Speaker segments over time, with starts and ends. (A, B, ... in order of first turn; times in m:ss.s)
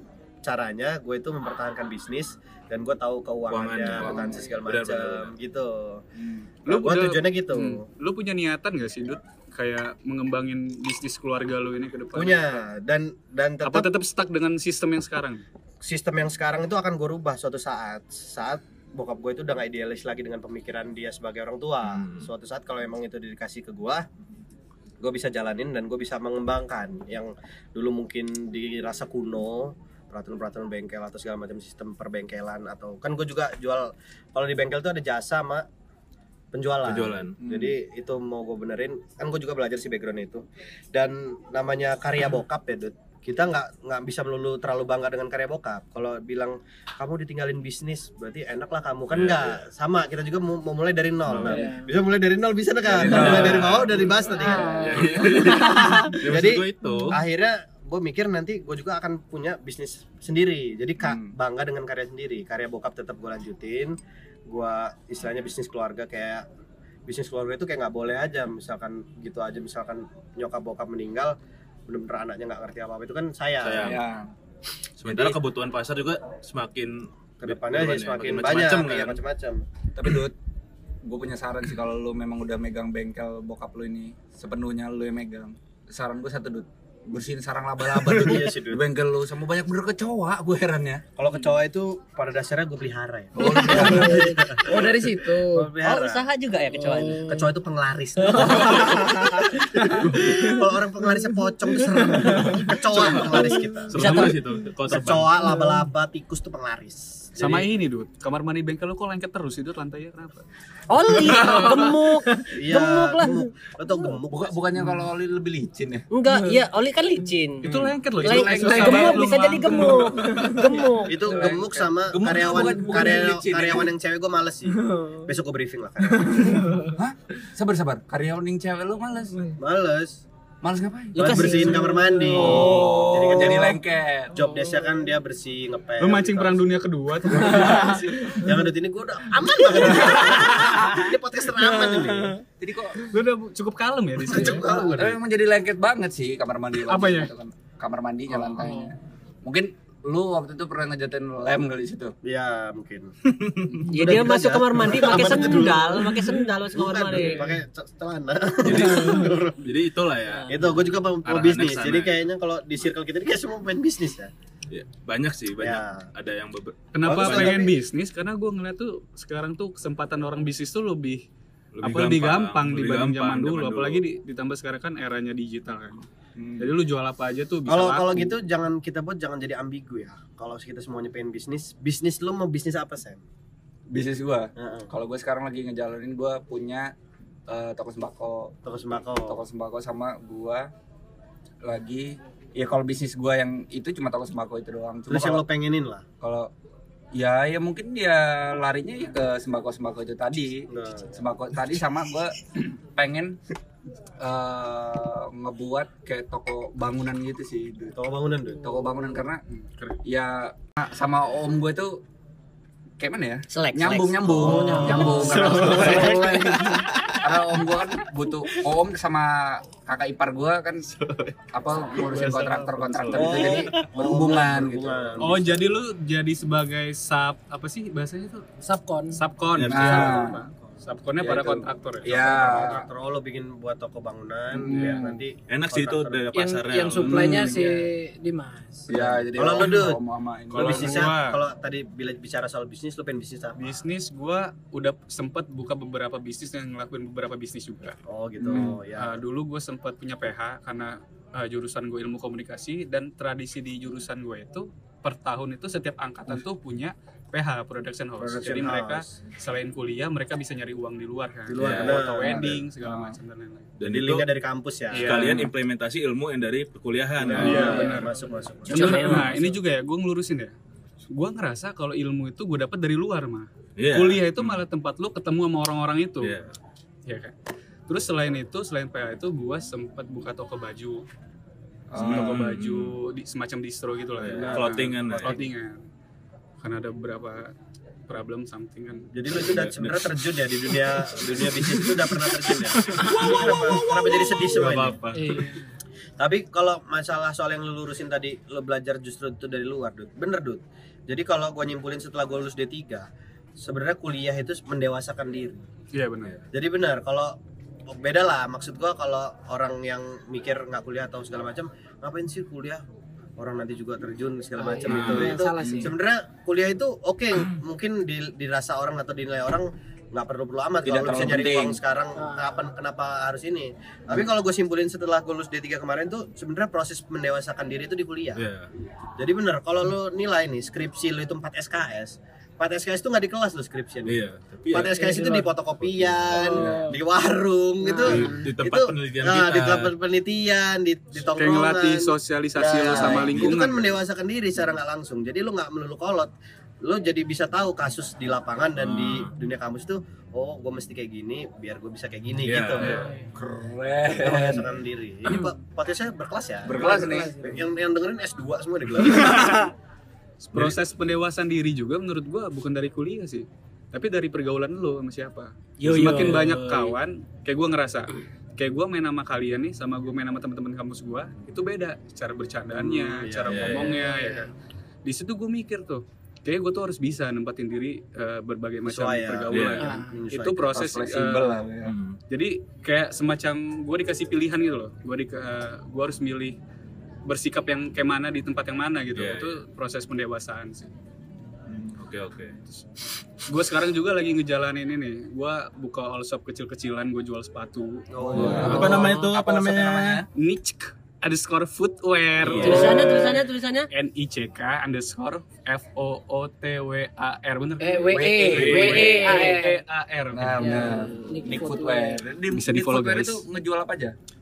0:00.4-0:06.0 A
0:03.5-0:05.3 B
0:03.9-0:04.5 C
0:06.2-0:06.5 C
0:06.6-0:12.5 D
0:06.7-0:07.8 A
0:12.1-0:13.9 A
0:13.6-0:15.4 D
0:15.8-0:24.0 A
0:21.8-0:22.3 B
0:25.0-0:35.6 A
0:36.5-1:04.0 A
0:36.8-0:37.4 B
0:37.4-0:37.8 C
0:49.1-0:49.6 B
0:51.3-0:51.6 B
0:51.4-0:51.9 E
0:52.9-0:54.3 B
0:52.9-0:53.9 C
0:54.2-0:56.1 E
0:54.8-0:57.2 B
1:01.0-1:01.3 C
1:04.5-1:06.4 A
1:07.1-1:11.4 A
1:11.9-1:14.0 A
1:13.6-1:14.0 B
1:13.8-1:14.3 C
1:15.0-1:19.2 B
1:15.1-1:15.4 C
1:17.4-1:19.6 A
1:19.9-1:20.3 C
1:21.0-1:31.0 C
1:27.9-1:28.8 A
1:31.2-1:36.3 A
1:33.4-1:34.3 C
1:33.4-1:35.7 E
1:35.8-1:37.4 F
1:36.8-1:37.4 E
1:37.3-1:44.4 A
1:39.8-1:40.5 E
1:42.6-1:43.3 B
1:43.9-1:45.4 B
1:43.9-1:44.4 F
1:44.9-1:47.6 A
1:47.4-1:50.4 D
1:50.9-1:53.5 F
1:51.4-1:52.5 D
1:52.5-1:54.6 A
1:54.3-1:56.0 C
1:56.1-2:01.2 F
1:57.6-2:00.5 D
1:58.5-1:59.2 E
2:00.2-2:00.6 E
2:01.0-2:06.7 A
2:01.1-2:03.9 C
2:06.5-2:06.9 E
2:06.9-2:09.5 C
2:09.6-2:10.2 A
2:10.6-2:14.4 C
2:11.1-2:12.0 F
2:11.2-2:13.8 A
2:11.8-2:12.3 E
2:12.6-2:13.7 B
2:14.3-2:16.7 A
2:16.0-2:18.1 D
2:17.4-2:22.4 A
2:22.6-2:23.1 C
2:23.0-2:24.9 D
2:24.2-2:25.2 A
2:24.9-2:32.1 C
2:26.8-2:27.3 D
2:32.2-2:36.2 A
2:33.4-2:33.8 B
2:33.9-2:37.5 F
2:36.7-2:39.6 A
2:38.6-2:40.5 B
2:40.3-2:40.6 F
2:40.5-2:44.3 A
2:41.2-2:42.2 B
2:44.7-2:47.6 B
2:45.6-2:46.1 A
2:46.9-2:51.2 D
2:47.0-2:47.7 A
2:51.7-2:54.0 B
2:51.8-2:56.0 D
2:56.4-2:56.7 C
2:56.6-2:58.3 D
2:57.7-3:03.2 A
3:03.9-3:06.9 C
3:04.6-3:04.9 A
3:07.5-3:08.5 C
3:08.6-3:09.4 A
3:09.2-3:10.7 C
3:11.6-3:15.4 C
3:15.1-3:16.0 A
3:16.2-3:16.5 C
3:17.1-3:23.4 C
3:20.7-3:21.3 A
3:24.2-3:28.0 C
3:28.0-3:28.8 A
3:28.6-3:29.4 C
3:29.5-3:30.0 D
3:30.0-3:32.0 C
3:33.0-3:40.8 C
3:33.5-3:36.4 F
3:34.3-3:35.8 A
3:34.8-3:35.9 E
3:41.5-3:45.2 C
3:42.0-3:43.7 D
3:43.1-3:45.6 A
3:45.2-3:48.4 D
3:48.6-3:49.2 E
3:49.1-3:52.3 D
3:49.5-3:50.1 B
3:49.6-3:50.4 C
3:49.9-3:56.3 A
3:52.0-3:52.9 C
3:54.5-3:55.2 C
3:54.7-3:55.0 D
3:55.5-3:57.3 B
3:56.3-3:59.0 E
3:57.0-3:57.7 C
3:57.4-3:57.7 D
3:58.9-4:01.1 C
3:59.3-4:00.0 A
4:00.5-4:01.4 D
4:00.5-4:03.8 A
4:03.6-4:08.0 D
4:08.1-4:09.2 A
4:08.4-4:08.8 C
4:08.9-4:23.7 D
4:18.2-4:18.7 C
4:18.4-4:19.2 A
4:21.5-4:22.6 A
4:21.6-4:22.1 B
4:22.2-4:23.2 C
4:23.8-4:24.2 B
4:23.8-4:25.5 A
4:24.9-4:25.5 D
4:24.9-4:27.9 B
4:27.2-4:29.5 A
4:27.3-4:30.6 D
4:28.7-4:29.4 F
4:31.1-4:36.3 D
4:33.8-4:34.6 B
4:36.2-4:36.5 B
4:37.0-4:37.3 D
4:37.9-4:41.0 D
4:41.9-4:42.6 C
4:41.9-4:45.8 D
4:42.0-4:43.0 B
4:44.2-4:45.4 B
4:44.3-4:45.4 A
4:46.6-4:47.5 D
4:48.1-4:49.8 D
4:49.1-4:55.0 A
4:49.4-4:50.2 B
4:52.9-4:55.5 B
4:53.0-4:53.7 D
4:55.1-4:55.7 E
4:56.2-5:03.1 A
5:03.6-5:05.6 A
5:05.9-5:06.4 D
5:06.5-5:07.3 A
5:07.9-5:12.8 A
5:13.4-5:28.5 A
5:14.6-5:15.9 E
5:14.9-5:15.4 B
5:15.5-5:15.9 C
5:20.8-5:21.8 C
5:22.2-5:22.7 E
5:28.4-5:28.7 B
5:29.2-5:34.2 A
5:34.0-5:35.0 B
5:34.7-5:46.3 A
5:34.8-5:35.5 E
5:35.8-5:36.8 B
5:36.4-5:36.9 E
5:37.8-5:38.3 E
5:38.0-5:39.9 B
5:41.4-5:44.0 D
5:43.1-5:43.5 B
5:46.8-5:53.0 A
5:48.8-5:49.3 B
5:52.4-5:53.1 B
5:52.8-5:53.1 D
5:53.3-5:54.7 C
5:54.2-5:59.7 A
5:56.6-5:57.4 C
5:56.8-5:57.6 E
6:00.4-6:14.5 D
6:05.8-6:06.9 C
6:05.9-6:06.8 E
6:12.7-6:13.9 A
6:13.5-6:14.0 B
6:14.0-6:14.5 E
6:15.0-6:21.7 D
6:18.8-6:20.9 A
6:19.5-6:19.8 B
6:19.8-6:20.2 E
6:20.7-6:21.9 C
6:21.8-6:22.2 B
6:22.3-6:26.6 D
6:27.2-6:30.9 D
6:29.1-6:29.6 B
6:31.9-6:32.6 B
6:33.4-6:39.3 D
6:38.1-6:39.3 A
6:38.3-6:40.2 C
6:38.6-6:40.2 B
6:40.4-6:51.0 D
6:42.4-6:43.0 B
6:42.6-6:43.9 F
6:47.8-6:49.8 E
6:48.1-6:49.0 C
6:48.4-6:49.3 B
6:50.3-6:54.2 C
6:50.5-6:52.2 E
6:52.5-6:53.4 D